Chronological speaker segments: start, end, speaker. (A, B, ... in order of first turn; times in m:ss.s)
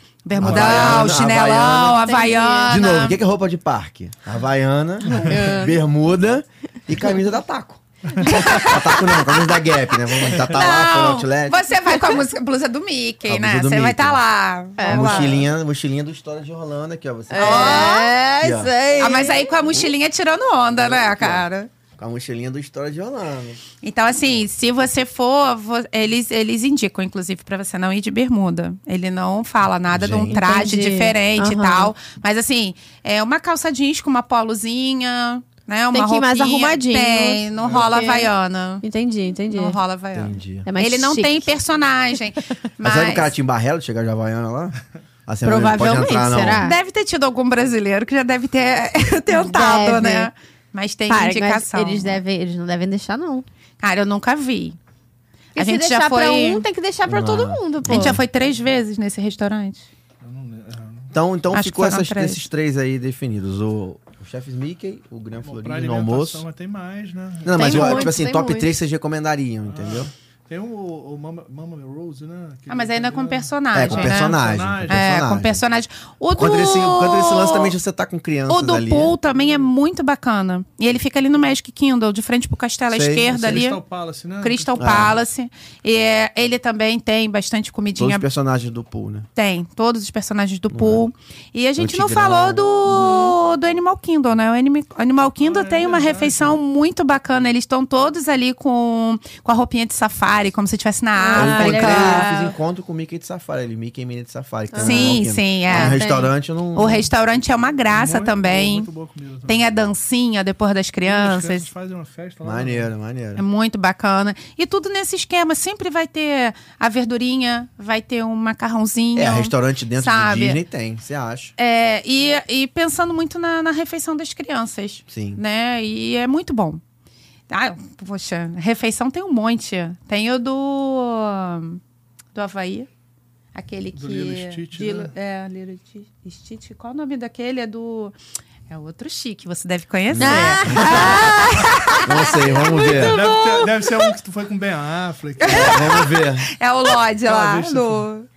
0:00.2-0:03.2 A
0:00.3-0:01.2 B
0:00.4-0:02.0 C
0:01.8-0:02.9 D
0:02.7-0:11.6 C
0:05.1-0:05.4 B
0:05.2-0:05.8 D
0:08.2-0:09.6 A
0:10.2-0:15.4 A
0:13.3-0:14.2 C
0:14.8-0:15.4 D
0:14.8-0:18.7 C
0:17.3-0:19.5 D
0:17.4-0:18.1 A
0:19.0-0:21.7 A
0:20.7-0:21.5 C
0:22.0-0:23.6 C
0:23.8-0:38.8 A
0:29.9-0:30.4 C
0:30.3-0:31.9 D
0:35.9-0:39.8 D
0:37.5-0:38.0 B
0:39.5-0:43.3 A
0:40.1-0:40.7 C
0:40.6-0:41.5 D
0:42.8-0:44.8 C
0:45.3-0:46.7 C
0:45.4-0:46.8 D
0:46.6-0:52.2 A
0:49.3-0:50.3 D
0:51.1-0:53.5 D
0:53.8-0:54.8 A
0:55.6-0:56.6 A
0:55.6-0:58.2 D
0:57.1-0:58.2 C
0:57.9-0:59.9 A
1:00.2-1:01.1 B
1:01.1-1:06.4 C
1:01.5-1:02.4 A
1:05.4-1:08.1 B
1:07.4-1:10.1 C
1:07.5-1:08.7 D
1:09.7-1:15.0 B
1:12.7-1:17.7 A
1:13.7-1:15.6 C
1:16.3-1:19.2 C
1:18.5-1:23.8 A
1:22.9-1:23.6 C
1:23.3-1:25.0 B
1:24.4-1:28.2 A
1:24.8-1:25.2 C
1:28.0-1:29.3 C
1:29.4-1:42.3 A
1:30.7-1:31.1 C
1:31.8-1:32.7 C
1:32.9-1:33.3 D
1:35.4-1:36.6 B
1:41.2-1:42.5 D
1:41.3-1:47.1 C
1:44.7-1:46.3 D
1:44.8-1:48.9 A
1:47.9-1:49.9 B
1:49.5-1:51.7 A
1:51.0-1:52.9 B
1:52.4-1:53.4 C
1:53.4-2:00.6 A
1:59.2-2:01.5 C
2:01.6-2:06.8 A
2:05.1-2:05.4 C
2:07.5-2:11.8 A
2:12.3-2:12.9 A
2:13.5-2:18.2 A
2:13.9-2:15.1 B
2:18.7-2:22.3 A
2:20.1-2:21.4 C
2:20.2-2:23.7 D
2:22.0-2:23.3 C
2:23.0-2:25.9 B
2:25.4-2:28.3 A
2:25.4-2:26.5 C
2:27.2-2:28.1 B